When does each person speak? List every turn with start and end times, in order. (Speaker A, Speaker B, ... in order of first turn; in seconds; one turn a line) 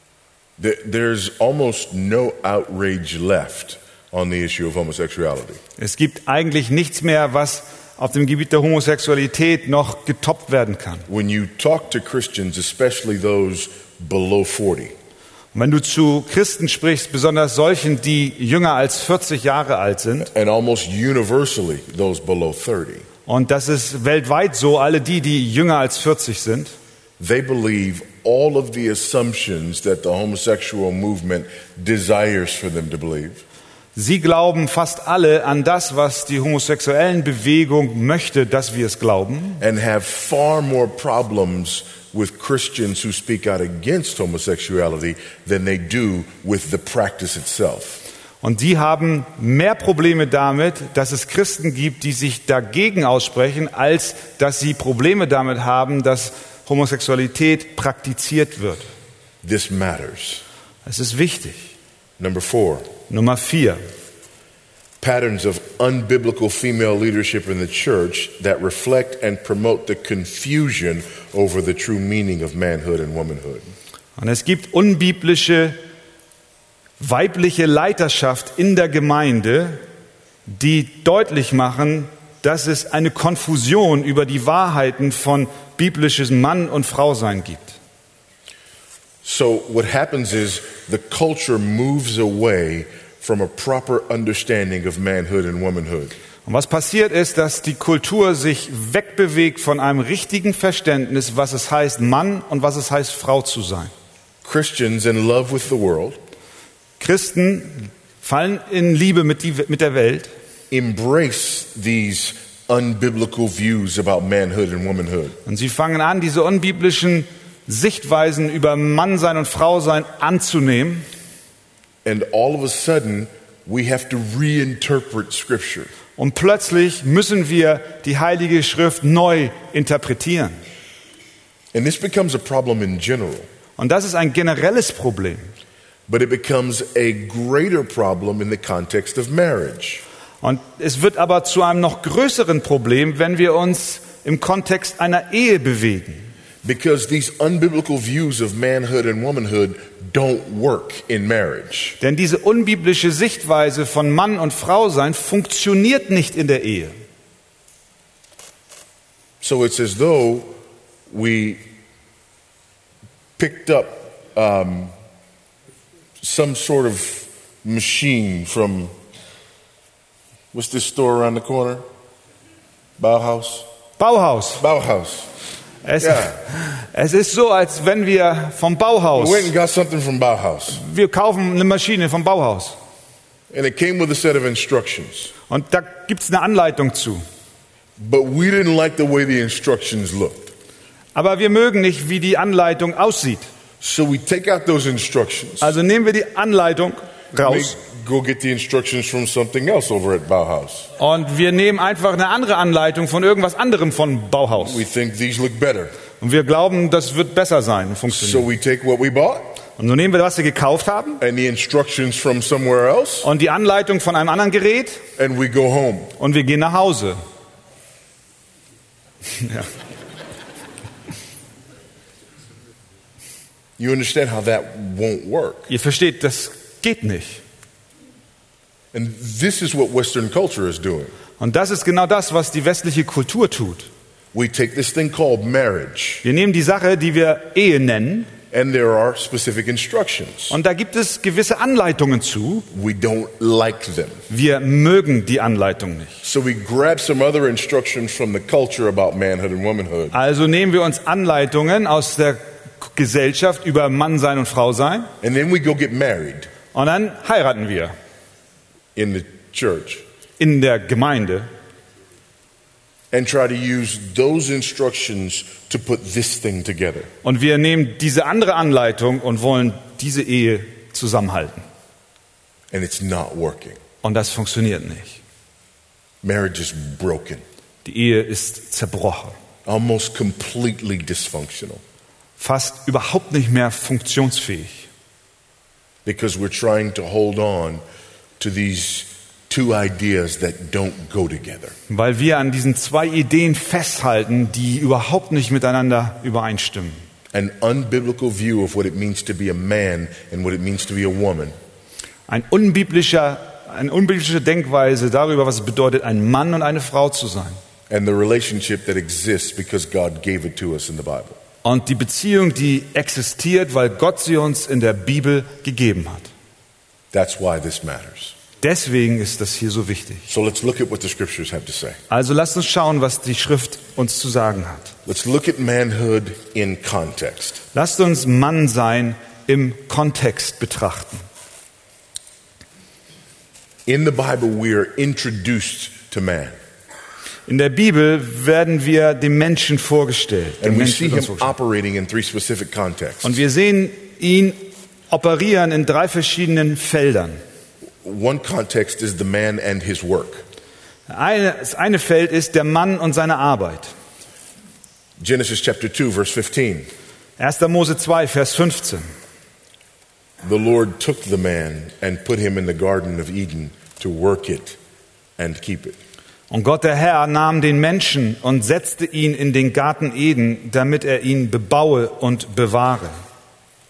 Speaker A: 0.6-5.6
Speaker B: 5.8-11.1
Speaker A: 11.1-15.0
Speaker B: 15.5-20.3
Speaker A: 20.3-23.1
Speaker B: 23.3-26.7
Speaker A: 27.2-33.4
Speaker B: 34.0-39.6
Speaker A: 39.6-48.0
Speaker B: 48.4-58.9
Speaker A: 59.4-60.4
Speaker B: 60.9-61.7
Speaker A: 62.2-62.9
Speaker B: 63.1-63.8
Speaker A: 65.0-73.7
Speaker B: 74.2-75.8
Speaker B: 77.0-79.8
Speaker B: 80.5-87.8
Speaker A: 89.2-96.2
Speaker B: 96.5-103.9
Speaker A: 104.4-106.2
Speaker B: 107.0-110.3
Speaker A: 110.7-115.4
Speaker B: 115.5-121.1
Speaker A: 122.0-125.9
Speaker B: 126.2-130.6
Speaker A: 131.7-133.5
Speaker B: 133.8-135.4
Speaker A: 136.1-140.0
Speaker B: 140.4-146.2
Speaker A: 146.6-152.0
Speaker B: 152.0-157.0
Speaker A: 159.4-160.6
Speaker A: 161.1-161.6
Speaker A: 163.4-164.9
Speaker A: 166.2-168.9
Speaker A: 170.5-171.8
Speaker A: 173.0-173.7
Speaker B: 174.0-174.6
Speaker A: 174.6-175.3
Speaker B: 175.8-179.5
Speaker A: 176.0-176.4
Speaker A: 179.2-180.8
Speaker B: 180.7-182.8
Speaker A: 183.5-185.3
Speaker B: 185.5-187.2
Speaker A: 188.0-190.5
Speaker B: 191.2-193.5
Speaker A: 193.8-195.8
Speaker B: 195.6-197.8
Speaker A: 197.4-200.9
Speaker B: 201.0-204.8
Speaker A: 204.6-205.9
Speaker B: 206.2-208.5
Speaker A: 208.1-209.6
Speaker B: 209.8-211.2
Speaker A: 211.2-213.3
Speaker B: 213.2-215.1
Speaker A: 215.2-216.1
Speaker B: 216.2-217.2
Speaker B: 219.4-219.7
Speaker A: 223.8-225.7
Speaker B: 225.7-227.4
Speaker A: 228.9-231.1
Speaker B: 231.4-233.9
Speaker A: 234.3-236.2
Speaker B: 236.2-238.3
Speaker A: 238.5-240.6
Speaker B: 240.5-242.7
Speaker A: 242.7-244.2
Speaker B: 244.3-246.2
Speaker A: 246.2-250.2
Speaker B: 250.1-255.1
Speaker A: 255.2-256.5
Speaker B: 256.7-257.9
Speaker A: 258.9-260.0
Speaker B: 260.4-261.5
Speaker A: 263.1-267.1
Speaker B: 267.2-271.6
Speaker A: 272.7-273.8
Speaker B: 274.0-275.2
Speaker A: 276.2-277.4
Speaker B: 277.9-279.4
Speaker A: 279.7-281.8
Speaker B: 282.4-284.9
Speaker A: 286.1-287.8
Speaker A: 288.4-291.8
Speaker B: 291.9-297.0
Speaker A: 297.3-301.5
Speaker B: 302.3-307.6
Speaker A: 307.9-311.4
Speaker B: 311.6-316.3
Speaker A: 317.1-318.4
Speaker B: 318.6-320.3
Speaker A: 320.3-322.0
Speaker B: 322.1-324.9
Speaker A: 325.1-327.6
Speaker B: 327.7-331.2
Speaker A: 333.9-336.6
Speaker B: 337.5-341.5
Speaker A: 340.6-343.4
Speaker B: 343.2-347.4
Speaker A: 348.0-350.4
Speaker B: 351.1-353.9
Speaker A: 355.2-356.9
Speaker B: 357.4-359.1
Speaker A: 360.4-364.8
Speaker A: 365.4-366.0
Speaker B: 366.5-373.2